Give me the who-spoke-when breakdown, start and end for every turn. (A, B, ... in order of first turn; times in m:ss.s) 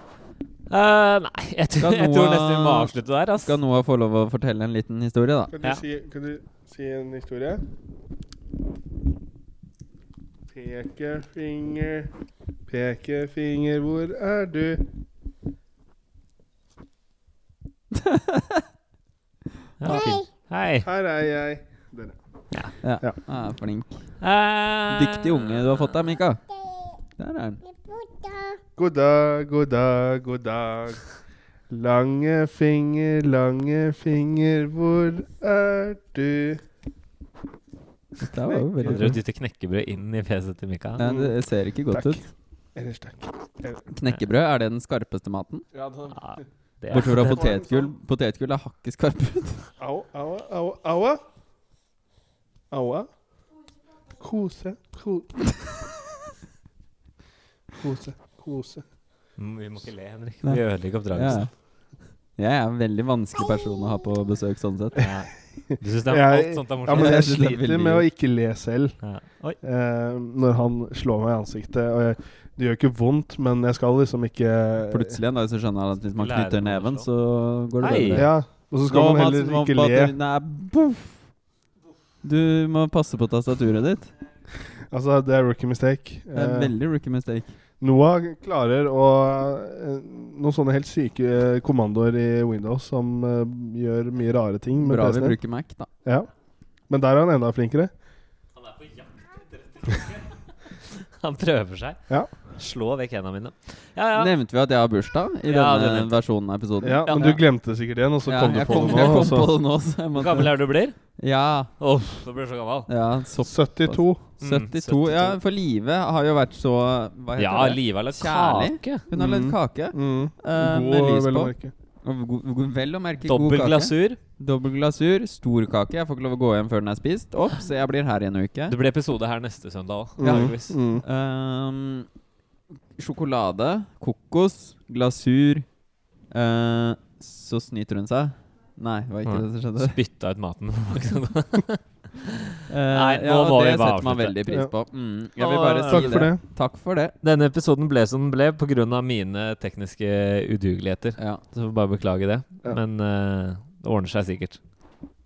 0:00.7-0:03.6 A
0:01.8-0:02.9 B
0:03.4-0:05.5 B
0:05.5-0:07.6 C
0:10.5-0:12.1 C
0:12.7-0:14.8 C
0:17.9-0:18.6 B
0:19.8-0:20.8 A
0:20.8-0:22.2 C
0:22.8-0:23.9 B
0:24.2-0:26.0 A
0:24.9-0:26.4 B
0:27.1-0:27.6 B
0:28.8-0:31.1 C
0:31.7-0:36.6 C
0:38.2-0:39.2 B
0:38.4-0:39.1 C
0:38.8-0:41.0 A
0:41.0-0:42.2 B
0:41.0-0:41.4 C
0:41.9-0:42.2 C
0:42.7-0:43.8 C
0:43.9-0:45.6 B
0:45.7-0:46.2 C
0:46.1-0:47.5 A
0:46.9-0:49.7 B
0:46.9-0:47.9 C
0:49.8-0:51.2 C
0:52.7-0:53.1 C
0:54.2-0:55.5 C
0:57.8-0:58.8 C
0:59.4-1:01.5 A
1:00.4-1:01.5 B
1:02.4-1:05.0 B
1:05.0-1:07.4 A
1:06.1-1:09.1 C
1:06.9-1:08.0 B
1:09.0-1:09.6 A
1:09.6-1:15.2 C
1:14.9-1:18.3 B
1:16.2-1:17.1 A
1:17.8-1:18.2 A
1:18.1-1:20.1 C
1:18.9-1:21.2 B
1:22.2-1:24.1 B
1:24.9-1:26.7 C
1:26.3-1:27.5 B
1:27.8-1:35.4 C
1:34.8-1:35.9 B
1:36.9-1:37.9 C
1:38.7-1:44.3 A
1:44.1-1:47.4 B
1:45.4-1:46.1 A
1:46.8-1:49.5 C
1:47.0-1:47.4 A
1:48.2-1:50.5 B
1:48.7-1:49.3 A
1:50.2-1:51.0 A
1:51.2-1:51.7 B
1:51.8-1:52.9 A
1:52.9-2:08.8 B
1:53.4-1:54.2 C
1:54.4-1:55.4 A
1:57.4-1:59.0 A
1:59.1-2:01.7 C
2:03.2-2:04.2 A
2:08.7-2:10.7 A
2:10.2-2:11.0 C
2:10.2-2:12.1 B
2:13.0-2:15.6 B
2:16.3-2:20.0 B
2:19.2-2:24.6 A
2:22.7-2:27.1 B
2:25.4-2:26.3 A
2:25.9-2:26.4 C
2:27.2-2:34.6 A